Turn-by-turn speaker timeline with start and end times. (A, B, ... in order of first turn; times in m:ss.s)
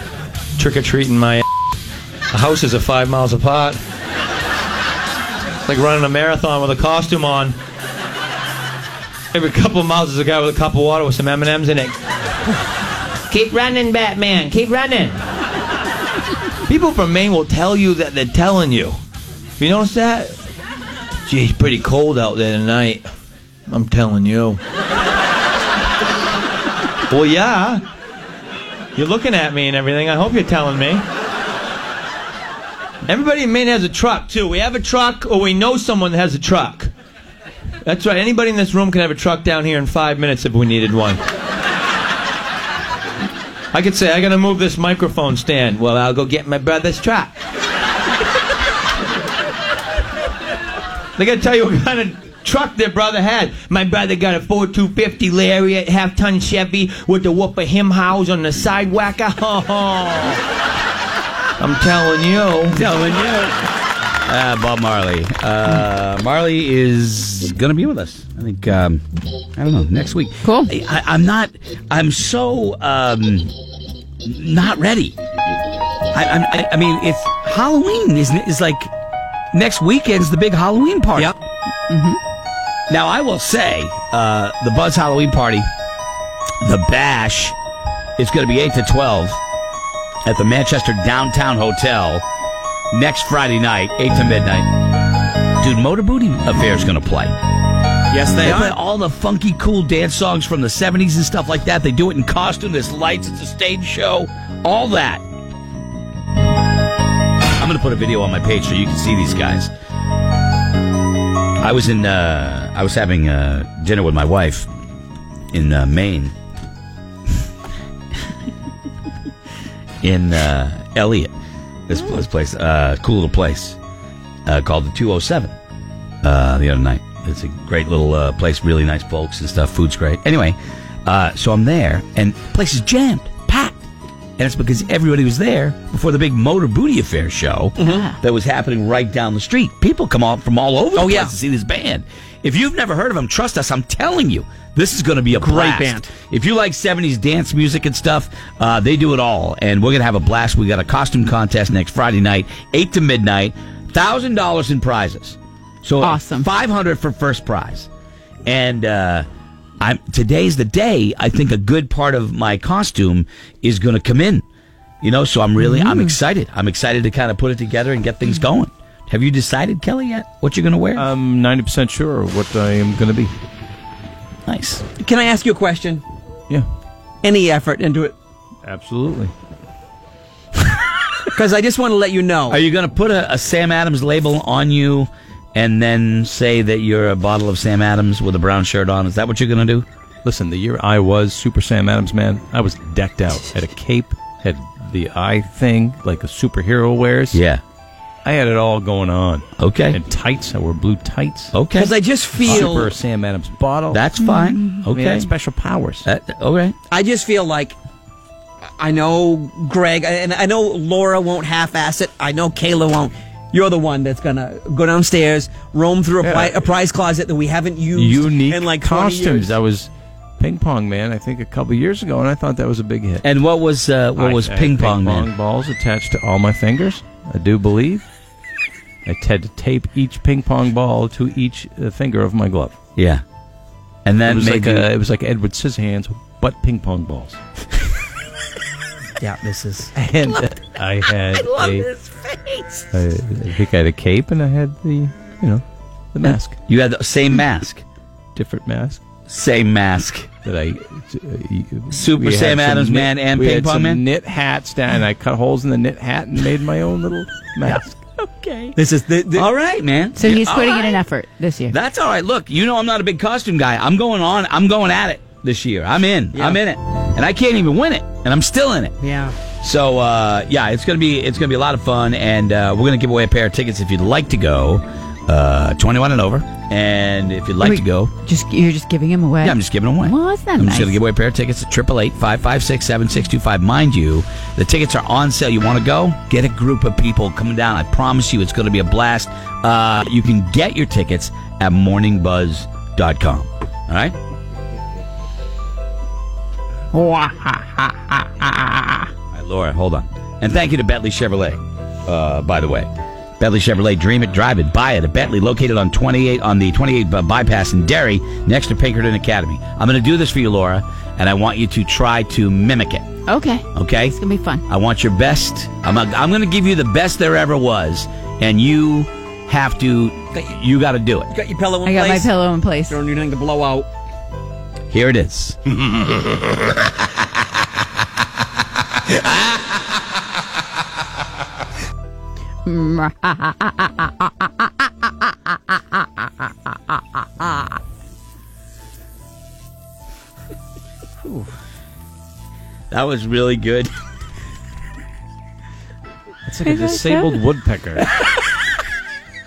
0:00.6-0:01.4 A
0:02.3-0:03.8 A
0:05.6-0:07.6 A
0:09.3-0:12.0 A
0:13.3-0:15.2 A
0:16.6-0:19.0 A
0:19.6-0:20.4 A
0:21.3-0:23.1 A
0:23.7-0:24.6 A
0:27.1-0:27.8 A
0:29.0-0:31.0 A
0:33.0-0:36.9 A
0:37.8-0:41.2 A
0:43.7-0:47.3 A
0:51.2-1:00.4 A
1:01.6-1:02.8 A
1:02.8-1:03.6 B
1:04.3-1:09.0 B
1:09.6-1:13.5 B
1:10.4-1:10.7 C
1:14.2-1:15.2 B
1:16.1-1:18.9 B
1:19.5-1:21.3 B
1:21.9-1:22.2 C
1:22.9-1:25.7 B
1:26.6-1:27.6 B
1:28.2-1:29.4 B
1:30.2-1:32.2 B
1:32.9-1:34.7 B
1:35.6-1:37.3 B
1:38.1-1:38.8 D
1:38.4-1:45.2 B
1:47.6-1:49.7 B
1:51.6-1:54.7 B
1:55.5-1:56.3 B
2:00.0-2:01.3 B
2:01.9-2:03.8 B
2:04.5-2:05.6 B
2:06.2-2:13.8 B
2:14.4-2:37.9 B
2:17.8-2:18.1 D
2:17.9-2:18.1 C
2:21.0-2:21.3 D
2:25.3-2:26.1 D
2:36.0-2:36.5 C
2:38.4-2:39.3 B
2:39.8-2:44.4 B
2:45.0-2:51.1 B
2:45.6-2:46.2 C
2:51.0-2:53.3 E
2:54.5-2:54.8 B
2:55.0-2:56.0 D
2:57.2-2:58.2 D
2:58.7-2:59.3 E
3:01.3-3:02.6 D
3:02.5-3:09.9 B
3:10.2-3:17.4 E
3:17.3-3:17.6 B
3:18.2-3:21.6 E
3:19.6-3:20.0 B
3:21.5-3:21.9 B
3:21.8-3:23.0 D
3:22.3-3:24.0 E
3:23.9-3:25.3 B
3:24.2-3:24.8 C
3:24.9-3:26.1 E
3:26.0-3:26.8 B
3:26.9-3:27.8 D
3:28.8-3:39.6 D
3:36.2-3:36.6 E
3:37.9-3:43.2 E
3:43.2-3:45.3 B
3:44.2-3:48.0 E
3:49.1-3:52.8 E
3:53.0-3:53.2 B
3:54.0-3:54.9 B
3:54.3-3:57.4 E
3:59.2-3:59.9 D
4:00.0-4:01.9 E
4:02.9-4:06.6 E
4:06.7-4:07.8 B
4:08.4-4:09.0 E
4:09.3-4:10.3 B
4:10.4-4:18.0 E
4:11.9-4:14.0 B
4:18.4-4:18.7 B
4:18.8-4:19.5 D
4:19.3-4:21.0 B
4:20.2-4:21.7 C
4:21.7-4:29.0 B
4:26.3-4:26.6 D
4:29.0-4:29.4 D
4:29.6-4:38.1 B
4:37.6-4:41.0 C
4:39.4-4:54.2 B
4:56.9-4:59.1 C
4:59.3-5:13.0 B
5:13.3-5:14.6 C
5:13.8-5:21.3 B
5:21.3-5:22.3 D
5:21.8-5:23.0 C
5:22.9-5:23.9 D
5:24.9-5:25.6 B
5:32.7-5:34.5 C
5:42.9-5:43.9 B
5:46.5-5:48.1 E
5:46.6-5:47.4 C